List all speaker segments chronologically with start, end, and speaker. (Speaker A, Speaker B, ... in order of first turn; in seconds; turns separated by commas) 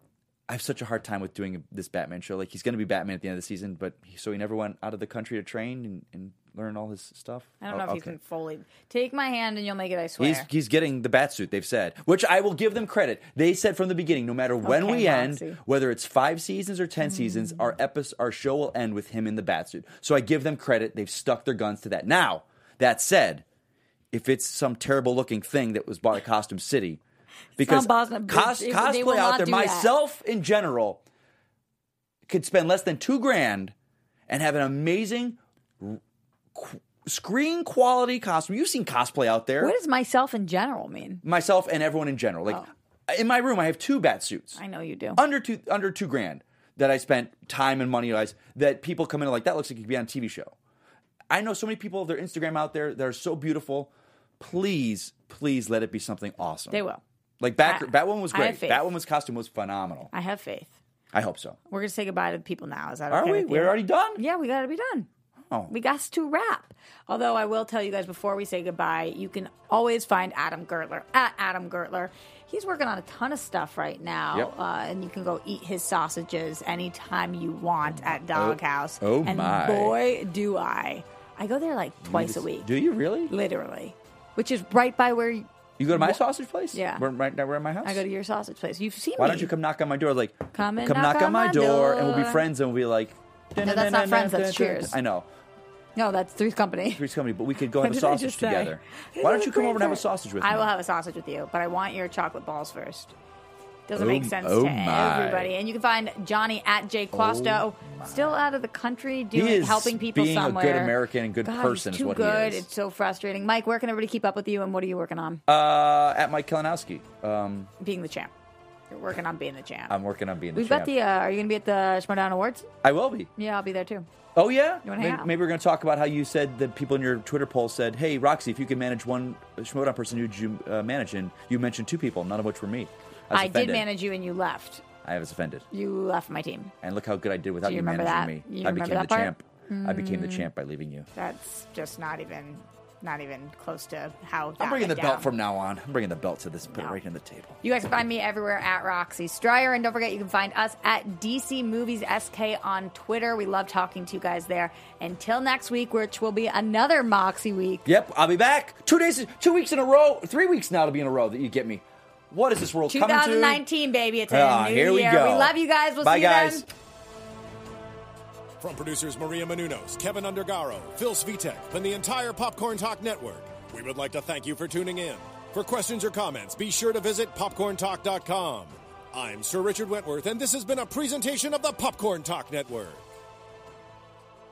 Speaker A: 0.5-8.2, Speaker B: 7.6-10.5, Speaker A: 10.2-23.4, Speaker B: 14.6-15.6, Speaker B: 17.2-17.6, Speaker A: 24.1-27.0, Speaker A: 27.6-31.0, Speaker B: 27.6-29.9, Speaker A: 32.3-33.7, Speaker A: 34.3-36.0, Speaker A: 36.5-39.8, Speaker B: 39.6-41.2, Speaker A: 41.2-44.6, Speaker B: 44.6-45.2, Speaker A: 45.2-50.5, Speaker A: 51.3-56.8, Speaker B: 56.7-57.0, Speaker A: 57.4-60.1, Speaker B: 57.6-59.0, Speaker B: 60.1-60.8, Speaker A: 61.1-61.6, Speaker B: 61.7-65.1, Speaker A: 63.1-64.2, Speaker B: 65.7-82.7, Speaker A: 77.8-80.0, Speaker A: 82.0-83.3, Speaker B: 83.3-86.2, Speaker A: 85.8-88.0, Speaker B: 86.7-87.1, Speaker B: 87.8-89.5, Speaker A: 89.2-95.3, Speaker B: 90.5-92.5, Speaker B: 93.6-95.0, Speaker B: 96.0-97.0, Speaker A: 96.9-100.7, Speaker B: 97.8-103.1, Speaker B: 103.9-115.4, Speaker A: 104.0-105.5, Speaker A: 107.1-108.4, Speaker A: 109.3-112.7, Speaker A: 115.5-117.7, Speaker B: 117.8-118.3, Speaker B: 118.9-119.9, Speaker A: 119.9-120.9, Speaker B: 120.5-122.7, Speaker A: 122.8-123.3, Speaker B: 123.4-124.1, Speaker A: 124.3-133.9, Speaker B: 124.8-125.3, Speaker B: 133.3-134.8, Speaker A: 135.0-135.7, Speaker B: 135.7-136.7, Speaker A: 136.8-141.1, Speaker B: 137.6-140.5, Speaker B: 141.2-145.3, Speaker A: 144.6-147.6, Speaker B: 146.7-147.0, Speaker B: 147.6-157.9, Speaker A: 157.9-163.6, Speaker B: 162.9-166.7, Speaker A: 164.3-166.7, Speaker C: 168.6-183.1